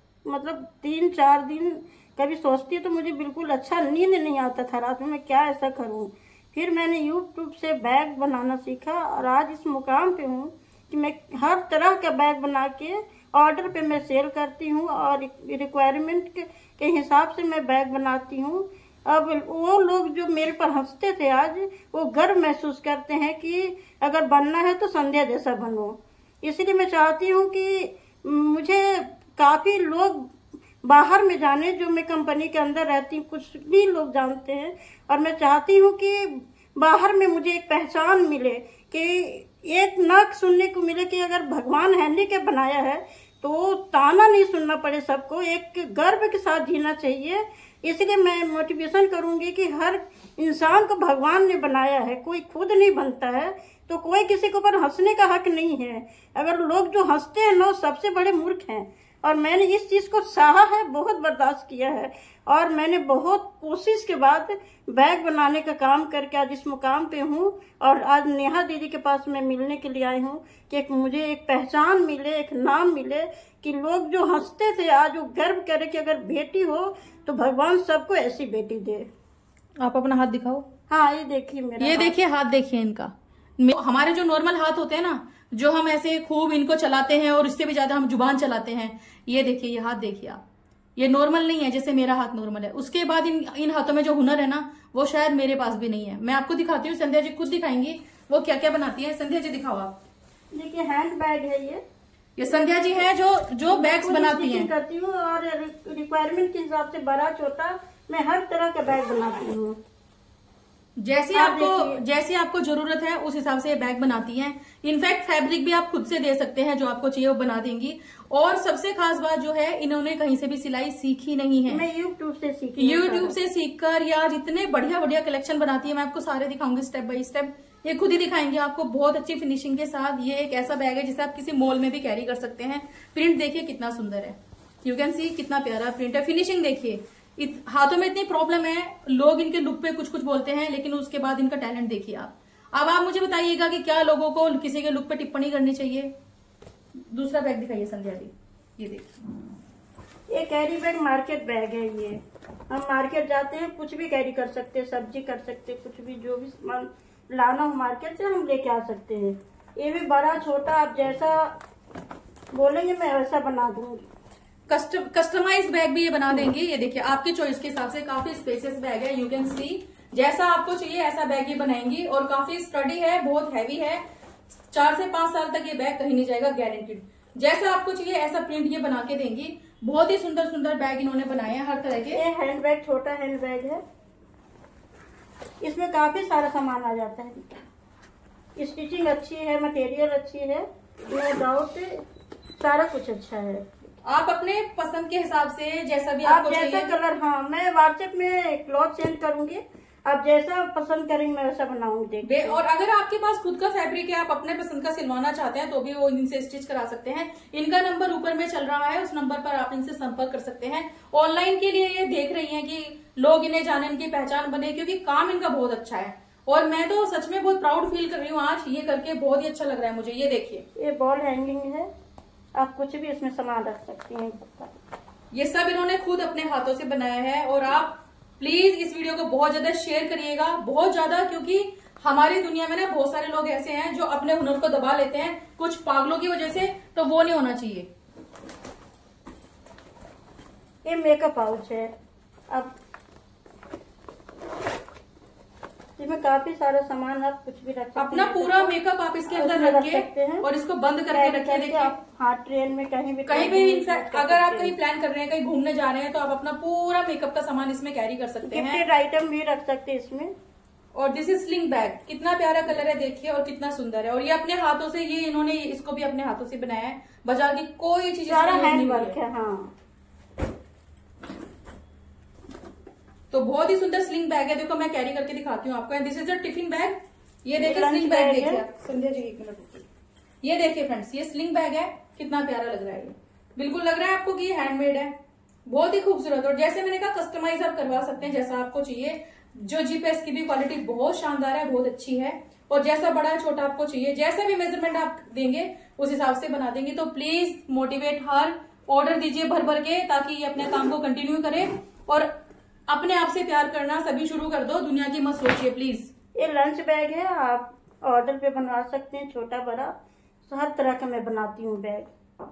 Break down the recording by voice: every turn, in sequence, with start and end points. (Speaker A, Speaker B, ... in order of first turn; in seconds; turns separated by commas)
Speaker A: 0.2-79.1, Speaker B: 79.8-80.7, Speaker A: 80.9-82.2, Speaker B: 81.8-90.4, Speaker B: 91.0-100.0, Speaker A: 100.5-101.8, Speaker B: 102.4-104.7, Speaker A: 102.7-103.0, Speaker A: 103.7-109.8, Speaker B: 111.0-121.8, Speaker A: 111.3-112.0, Speaker A: 121.7-123.3, Speaker B: 122.8-146.1, Speaker B: 147.1-149.1, Speaker A: 150.3-161.6, Speaker A: 162.5-164.1, Speaker B: 164.7-174.0, Speaker B: 174.7-182.2, Speaker A: 182.1-183.8, Speaker A: 185.6-187.6, Speaker A: 188.6-192.0, Speaker A: 192.6-193.9, Speaker B: 194.0-196.9, Speaker A: 196.2-202.6, Speaker B: 202.2-220.6, Speaker A: 220.8-221.9, Speaker A: 222.6-224.7, Speaker B: 225.3-237.9, Speaker A: 240.8-241.9, Speaker A: 246.0-248.7, Speaker B: 247.9-251.9, Speaker A: 249.3-250.4, Speaker A: 251.1-254.8, Speaker B: 253.2-258.8, Speaker A: 258.4-260.3, Speaker B: 260.9-269.2, Speaker A: 268.3-269.7, Speaker B: 273.3-279.8, Speaker A: 277.6-278.6, Speaker B: 280.4-285.1, Speaker B: 285.6-302.3, Speaker B: 302.9-306.1, Speaker A: 306.4-309.9, Speaker A: 310.4-312.1